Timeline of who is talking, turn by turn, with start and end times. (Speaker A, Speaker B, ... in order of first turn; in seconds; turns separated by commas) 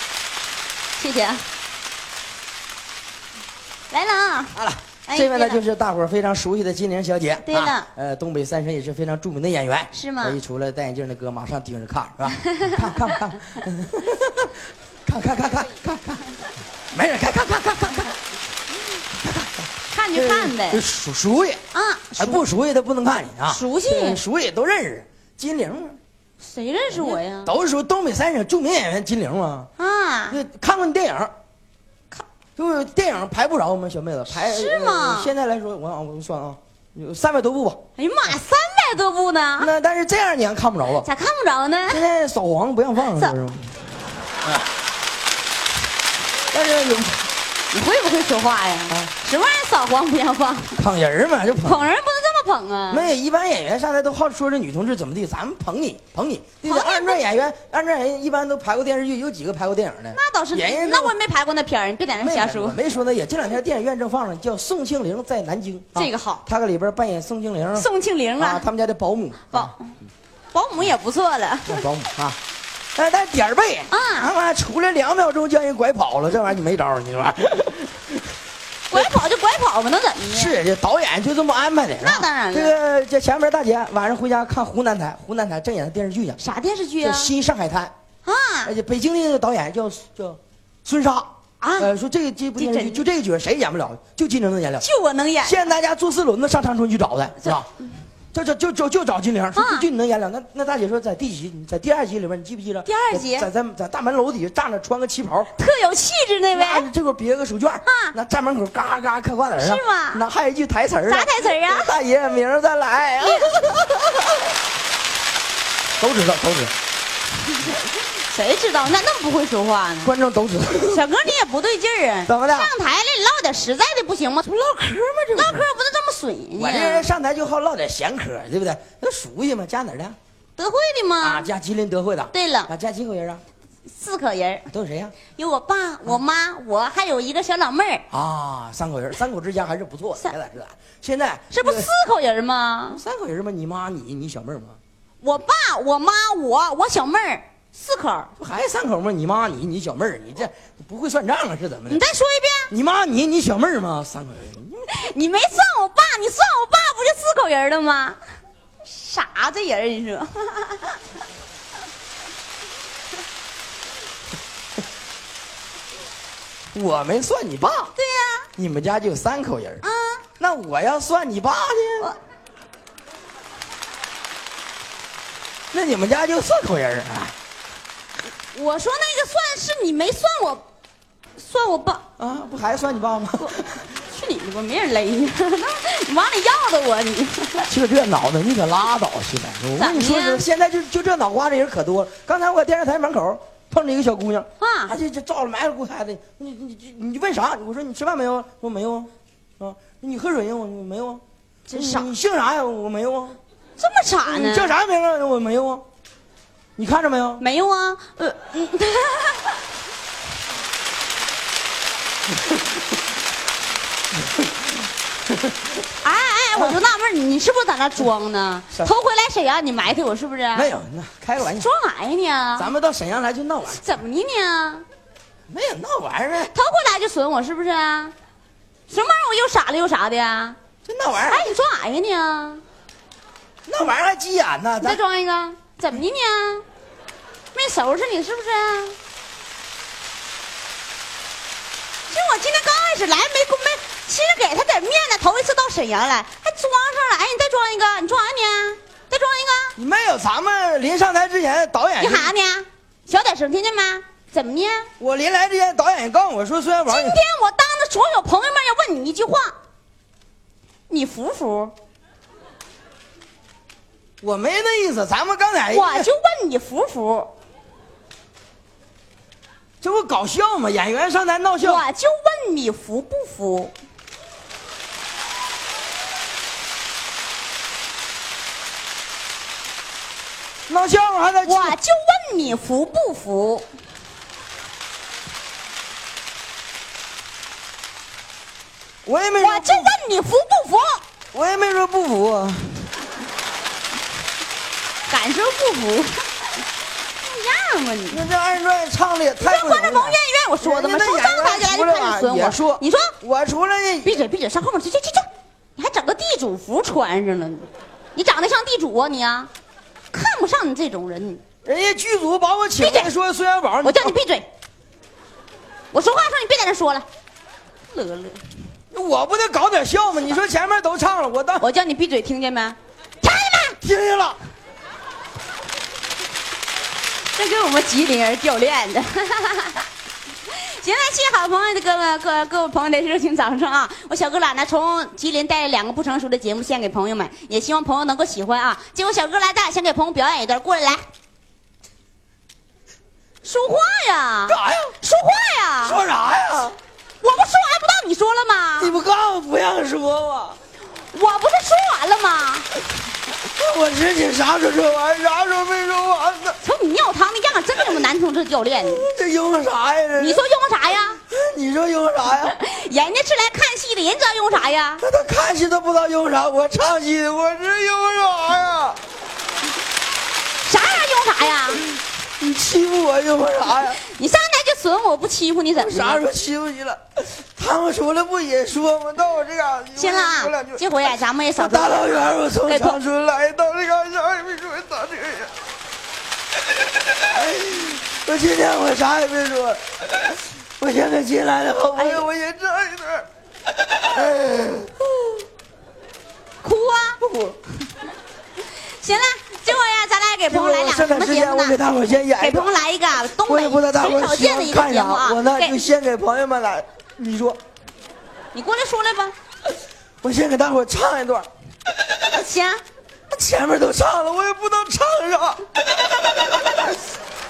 Speaker A: 1.0-1.4, Speaker A: 3.9-4.5, Speaker B: 4.5-16.3, Speaker A: 5.0-5.6, Speaker A: 7.4-7.9, Speaker A: 9.9-10.4, Speaker B: 16.9-18.2, Speaker B: 19.2-21.6, Speaker A: 19.9-20.8, Speaker A: 21.7-22.4, Speaker B: 22.2-26.0, Speaker A: 23.4-24.2, Speaker A: 26.4-27.5, Speaker B: 26.9-29.7, Speaker A: 29.8-30.4, Speaker B: 30.3-31.3, Speaker B: 32.6-37.8, Speaker A: 34.3-35.3, Speaker A: 38.0-39.7, Speaker B: 39.6-41.1, Speaker A: 41.0-42.0, Speaker B: 41.9-43.7, Speaker B: 46.5-47.3, Speaker A: 47.7-50.8, Speaker B: 50.8-51.8, Speaker A: 51.6-53.1, Speaker B: 52.9-61.1, Speaker A: 56.6-57.2, Speaker A: 60.1-62.8, Speaker B: 62.2-69.7, Speaker A: 65.9-66.5, Speaker A: 67.7-68.6, Speaker A: 69.5-69.9, Speaker A: 70.5-71.9, Speaker B: 71.7-72.4, Speaker B: 73.0-78.1, Speaker A: 73.9-74.3, Speaker A: 78.9-80.6, Speaker B: 80.2-86.4, Speaker A: 82.0-82.8, Speaker A: 86.4-87.3, Speaker B: 87.0-87.9, Speaker A: 88.2-88.7, Speaker B: 88.7-94.8, Speaker A: 91.6-91.9, Speaker A: 92.6-93.0, Speaker A: 94.8-95.6, Speaker B: 95.4-97.7, Speaker B: 98.3-105.5, Speaker A: 99.5-99.9, Speaker A: 102.8-103.5, Speaker A: 105.5-106.9, Speaker B: 106.5-114.2, Speaker A: 107.8-108.1, Speaker A: 109.6-110.2, Speaker A: 111.0-111.9, Speaker A: 113.2-113.6, Speaker B: 116.0-116.7, Speaker A: 117.5-120.1, Speaker B: 120.0-121.0, Speaker A: 120.8-124.4, Speaker B: 122.3-122.7, Speaker B: 124.4-125.7, Speaker A: 125.3-127.1, Speaker B: 126.6-130.2, Speaker A: 130.6-131.5, Speaker B: 131.2-133.4, Speaker A: 132.3-132.7, Speaker A: 133.9-134.7, Speaker B: 134.7-135.2, Speaker A: 135.3-138.1, Speaker B: 138.1-141.9, Speaker A: 141.5-143.0, Speaker B: 142.9-144.8, Speaker A: 145.2-148.3, Speaker B: 148.4-152.0, Speaker A: 151.9-152.7, Speaker B: 152.7-154.9, Speaker A: 154.9-158.2, Speaker A: 158.8-161.0, Speaker B: 166.7-167.9, Speaker A: 167.9-168.5, Speaker B: 168.6-169.8, Speaker A: 169.8-170.2, Speaker B: 170.4-172.1, Speaker B: 175.7-177.3, Speaker A: 178.5-180.6, Speaker A: 181.4-182.0, Speaker B: 182.2-183.8, Speaker A: 183.4-187.7, Speaker B: 187.7-203.4, Speaker A: 189.8-190.4, Speaker A: 194.6-194.9, Speaker A: 201.7-202.1, Speaker A: 203.8-204.7, Speaker B: 204.2-205.8, Speaker B: 206.8-207.4, Speaker A: 207.4-209.6, Speaker A: 216.0-220.7, Speaker B: 220.5-221.7, Speaker A: 221.4-222.7, Speaker B: 222.6-223.8, Speaker A: 223.7-224.8, Speaker B: 225.5-226.5, Speaker A: 226.4-228.1, Speaker A: 228.9-230.6, Speaker B: 230.8-231.5, Speaker A: 231.1-232.6, Speaker B: 233.7-235.0, Speaker A: 234.8-236.7, Speaker A: 237.5-239.0, Speaker A: 242.1-249.8, Speaker B: 249.8-252.3, Speaker A: 252.0-254.9, Speaker B: 255.0-257.2, Speaker A: 256.9-259.6, Speaker A: 260.9-261.7, Speaker B: 264.2-266.1, Speaker A: 265.7-267.3, Speaker B: 269.8-271.8, Speaker A: 271.6-273.7, Speaker B: 280.7-281.8, Speaker A: 281.4-283.7, Speaker B: 289.0-289.9, Speaker A: 289.4-291.0, Speaker B: 291.3-292.9, Speaker A: 295.1-296.5, Speaker A: 297.2-298.3, Speaker B: 298.1-304.2, Speaker A: 299.4-303.1, Speaker A: 304.0-309.5, Speaker A: 310.1-311.4, Speaker B: 311.6-314.2, Speaker A: 312.8-313.1, Speaker A: 313.8-314.5, Speaker A: 315.9-317.1, Speaker A: 317.9-318.4, Speaker B: 318.9-321.6, Speaker A: 321.6-323.8, Speaker B: 323.8-324.4, Speaker A: 327.3-329.9, Speaker A: 330.5-341.0, Speaker A: 343.4-346.0, Speaker B: 344.5-344.9, Speaker B: 345.8-346.8, Speaker A: 347.2-348.9, Speaker B: 348.8-350.6, Speaker A: 351.1-352.7, Speaker B: 353.5-356.6, Speaker A: 356.6-359.0, Speaker B: 358.8-360.4, Speaker A: 360.2-361.2, Speaker B: 361.3-362.6, Speaker A: 362.4-365.0, Speaker B: 365.0-369.0, Speaker A: 370.6-371.8, Speaker B: 372.4-374.0, Speaker A: 374.0-376.2, Speaker B: 375.8-380.9, Speaker A: 379.9-383.0, Speaker B: 381.6-385.5, Speaker B: 387.3-393.3, Speaker A: 391.9-392.2, Speaker B: 394.0-395.4, Speaker A: 396.6-397.2, Speaker B: 397.2-397.6, Speaker A: 398.8-401.8, Speaker B: 400.5-402.7, Speaker A: 402.3-405.8, Speaker B: 403.3-407.6, Speaker A: 408.5-409.3, Speaker B: 410.2-411.5, Speaker A: 412.3-412.8, Speaker B: 413.3-415.6